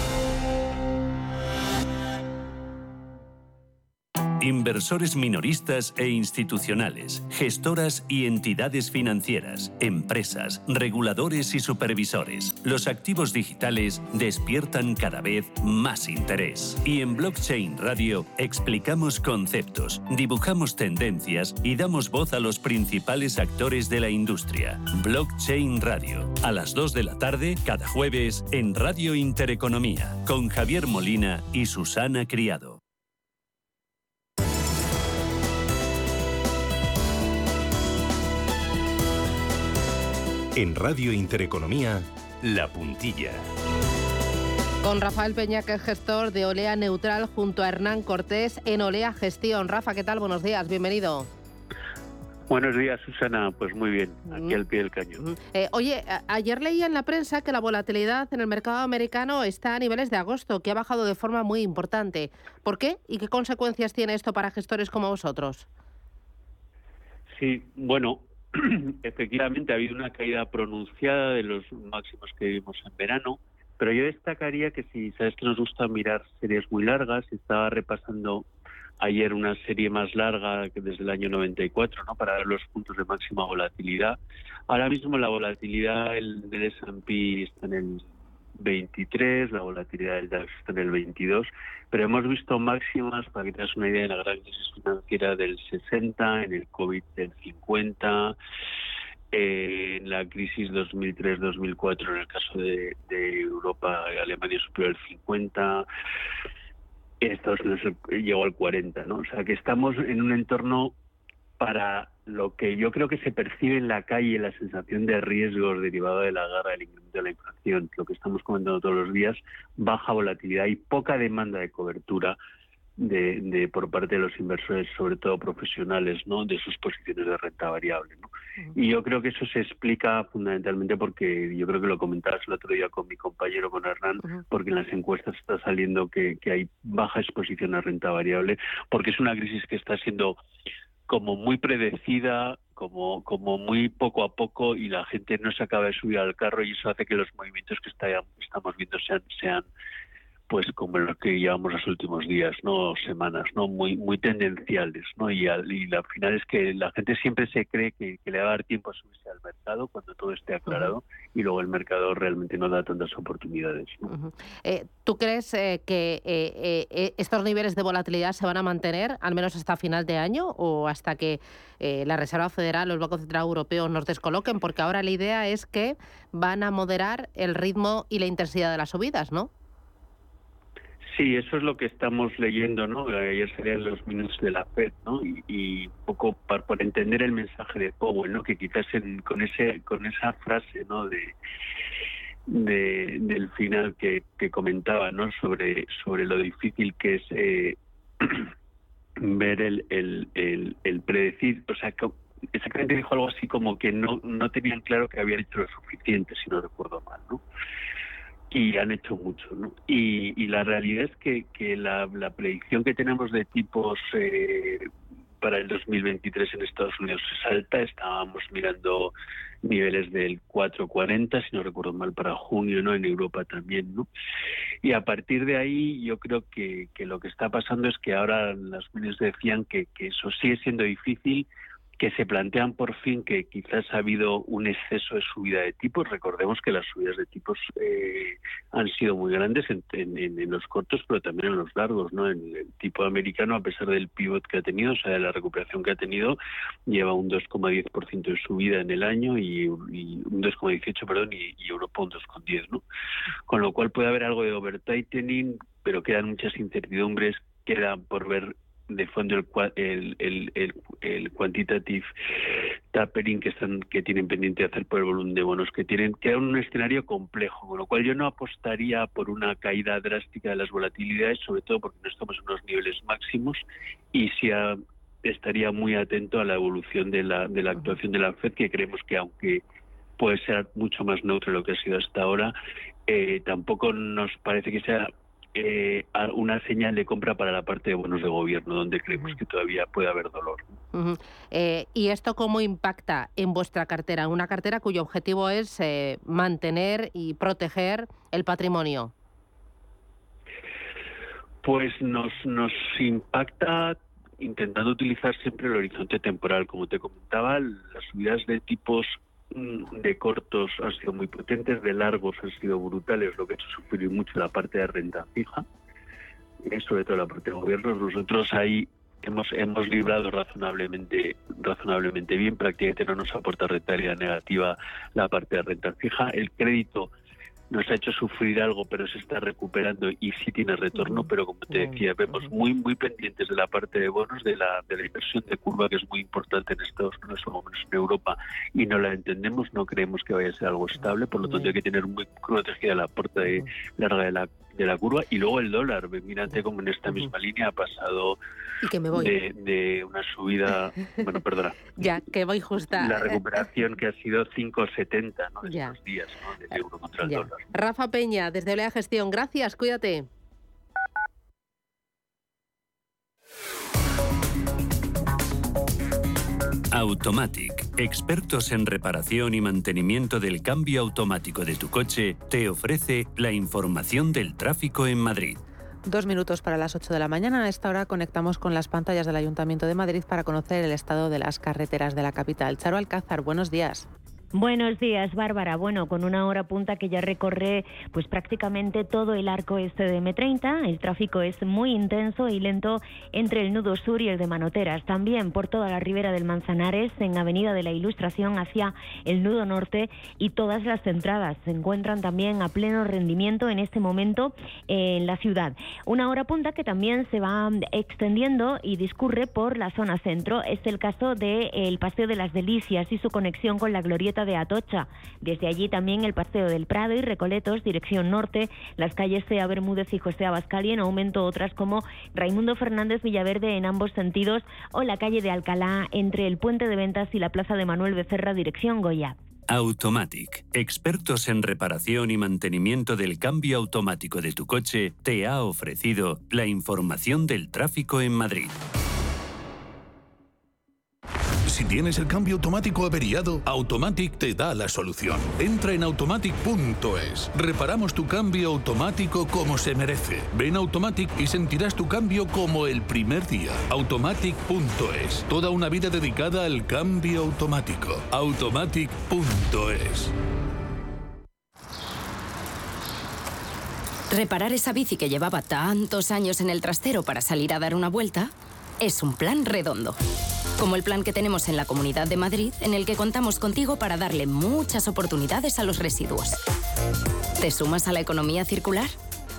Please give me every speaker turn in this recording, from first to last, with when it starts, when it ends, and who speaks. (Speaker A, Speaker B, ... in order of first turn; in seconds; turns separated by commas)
Speaker A: 4.4-32.8, Speaker B: 40.5-43.5, Speaker C: 44.8-51.3, Speaker D: 52.5-55.2, Speaker C: 55.2-65.7, Speaker D: 67.3-78.4, Speaker D: 79.0-84.2, Speaker D: 84.7-88.0, Speaker D: 88.6-98.3, Speaker D: 99.3-105.8, Speaker D: 107.2-110.9, Speaker D: 111.6-122.4, Speaker D: 123.0-140.3, Speaker D: 141.1-149.7, Speaker D: 150.5-164.1, Speaker C: 164.1-179.5, Speaker D: 181.1-191.3, Speaker D: 192.5-198.5, Speaker D: 199.2-207.4, Speaker D: 208.5-214.9, Speaker D: 215.4-219.1, Speaker D: 219.6-224.1, Speaker D: 224.8-231.5, Speaker D: 232.0-246.4, Speaker D: 246.9-252.8, Speaker D: 253.5-262.1, Speaker D: 262.9-273.6, Speaker D: 274.1-279.6, Speaker D: 280.2-282.5, Speaker D: 283.1-290.6, Speaker C: 290.9-299.1, Speaker D: 301.6-315.6, Speaker D: 316.7-327.1, Speaker D: 327.7-348.4, Speaker C: 348.8-349.3, Speaker D: 349.1-351.9, Speaker C: 352.0-353.4, Speaker D: 353.0-357.6, Speaker C: 355.6-355.9, Speaker C: 357.2-360.3, Speaker A: 366.9-375.6, Speaker E: 376.0-384.1, Speaker F: 384.5-429.4, Speaker A: 429.7-438.7, Speaker G: 441.7-460.3, Speaker H: 464.3-470.2, Speaker H: 470.8-476.6, Speaker H: 477.6-479.1